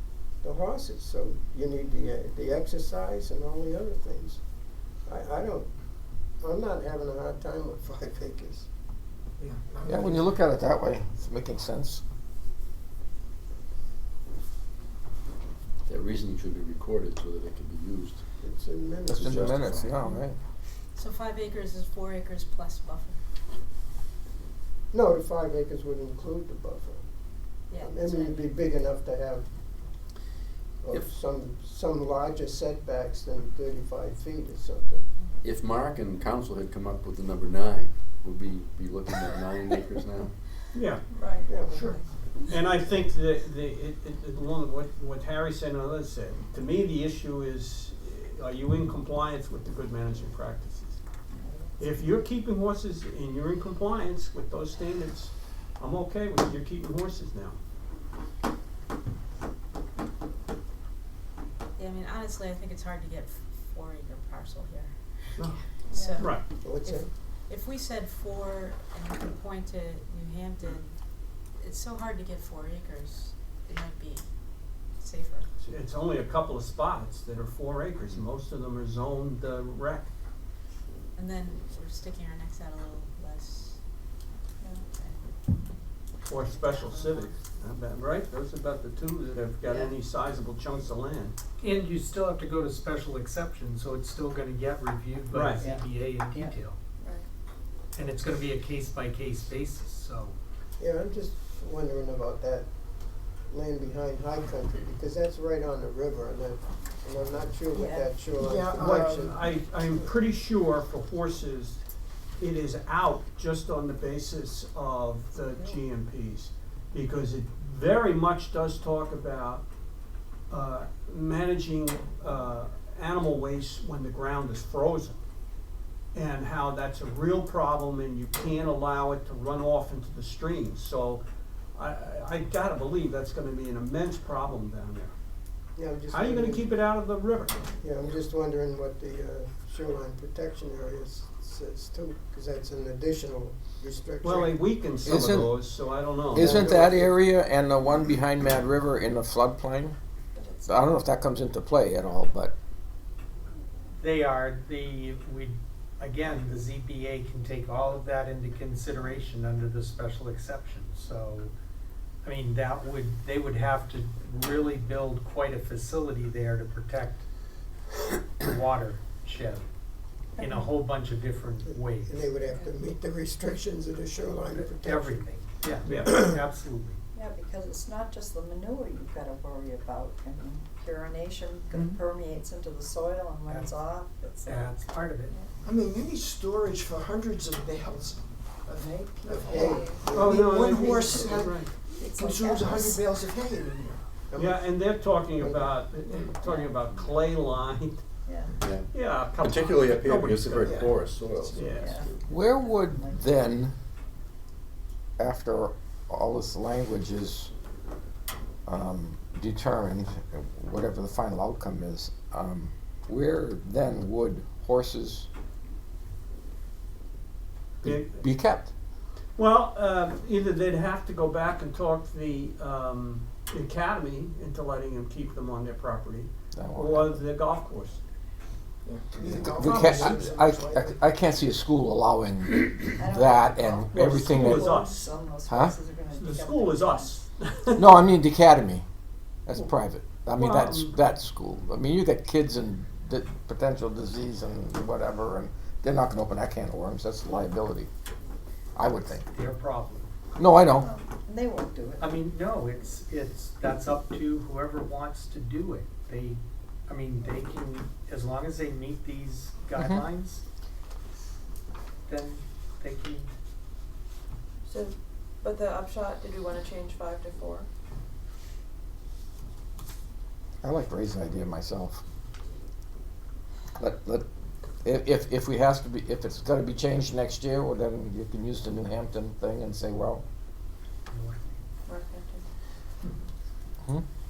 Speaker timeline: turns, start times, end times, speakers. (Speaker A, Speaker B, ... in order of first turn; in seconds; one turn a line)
Speaker A: 0.4-4.4
Speaker A: 5.0-5.7
Speaker A: 6.4-8.7
Speaker B: 9.4-10.3
Speaker C: 9.8-12.0
Speaker D: 15.8-18.3
Speaker A: 18.4-19.5
Speaker C: 19.1-20.4
Speaker D: 19.1-19.9
Speaker E: 20.0-20.2
Speaker E: 20.9-23.2
Speaker A: 24.9-27.1
Speaker E: 27.7-28.6
Speaker A: 27.7-29.5
Speaker A: 30.8-35.0
Speaker D: 35.4-40.4
Speaker F: 40.7-41.0
Speaker G: 41.1-41.8
Speaker A: 41.5-41.9
Speaker B: 41.7-42.0
Speaker F: 42.5-51.0
Speaker H: 51.3-51.8
Speaker F: 51.8-57.6
Speaker E: 61.8-75.5
Speaker H: 65.9-66.2
Speaker F: 66.2-66.5
Speaker A: 66.6-67.1
Speaker F: 75.6-80.1
Speaker E: 81.1-83.8
Speaker E: 84.9-85.3
Speaker F: 86.2-91.3
Speaker E: 86.4-87.0
Speaker H: 89.7-89.9
Speaker I: 91.6-96.8
Speaker F: 95.3-95.7
Speaker H: 97.0-97.3
Speaker I: 98.0-100.3
Speaker A: 100.8-102.7
Speaker A: 103.3-110.1
Speaker H: 107.7-108.2
Speaker B: 108.4-109.4
Speaker F: 108.6-111.8
Speaker F: 112.4-119.7
Speaker F: 120.5-125.2
Speaker F: 126.1-131.2
Speaker F: 131.7-135.1
Speaker A: 135.8-136.7
Speaker F: 136.1-137.8
Speaker A: 137.8-144.6
Speaker F: 144.2-146.6
Speaker C: 145.0-145.6
Speaker C: 146.3-150.0
Speaker A: 146.3-147.1
Speaker H: 150.3-150.9
Speaker C: 150.6-152.5
Speaker I: 154.0-161.5
Speaker I: 162.2-167.2
Speaker I: 168.4-169.6
Speaker H: 170.4-170.7
Speaker I: 170.4-172.2
Speaker A: 171.6-175.2
Speaker I: 174.5-177.0
Speaker F: 175.8-176.3
Speaker H: 177.1-185.5
Speaker I: 184.4-185.3
Speaker B: 185.6-194.0
Speaker H: 188.7-190.2
Speaker A: 189.3-190.3
Speaker F: 190.1-191.7
Speaker H: 190.9-191.3
Speaker H: 191.9-193.0
Speaker A: 194.3-195.8
Speaker F: 194.4-198.0
Speaker H: 196.4-196.8
Speaker H: 198.2-198.5
Speaker D: 198.6-202.2
Speaker F: 198.9-200.9
Speaker B: 200.6-201.0
Speaker F: 201.5-202.0
Speaker H: 201.6-203.5
Speaker C: 202.2-203.7
Speaker C: 205.2-207.5
Speaker C: 208.7-215.3
Speaker F: 217.8-218.2
Speaker C: 217.8-218.7
Speaker F: 219.4-228.0
Speaker C: 226.5-227.2
Speaker B: 228.8-231.1
Speaker C: 229.2-234.7
Speaker H: 232.9-237.2
Speaker F: 233.9-235.1
Speaker C: 235.4-235.8
Speaker F: 236.1-237.9
Speaker C: 237.8-238.8
Speaker C: 239.4-247.9
Speaker F: 240.3-240.9
Speaker C: 248.8-249.2
Speaker I: 249.2-250.1
Speaker C: 250.4-250.9
Speaker H: 250.6-252.2
Speaker I: 252.0-260.4
Speaker C: 259.8-260.0
Speaker I: 262.1-263.3
Speaker G: 264.6-267.7
Speaker C: 270.6-272.0
Speaker C: 273.8-274.2
Speaker C: 274.8-280.2
Speaker I: 281.1-281.5
Speaker H: 281.8-282.4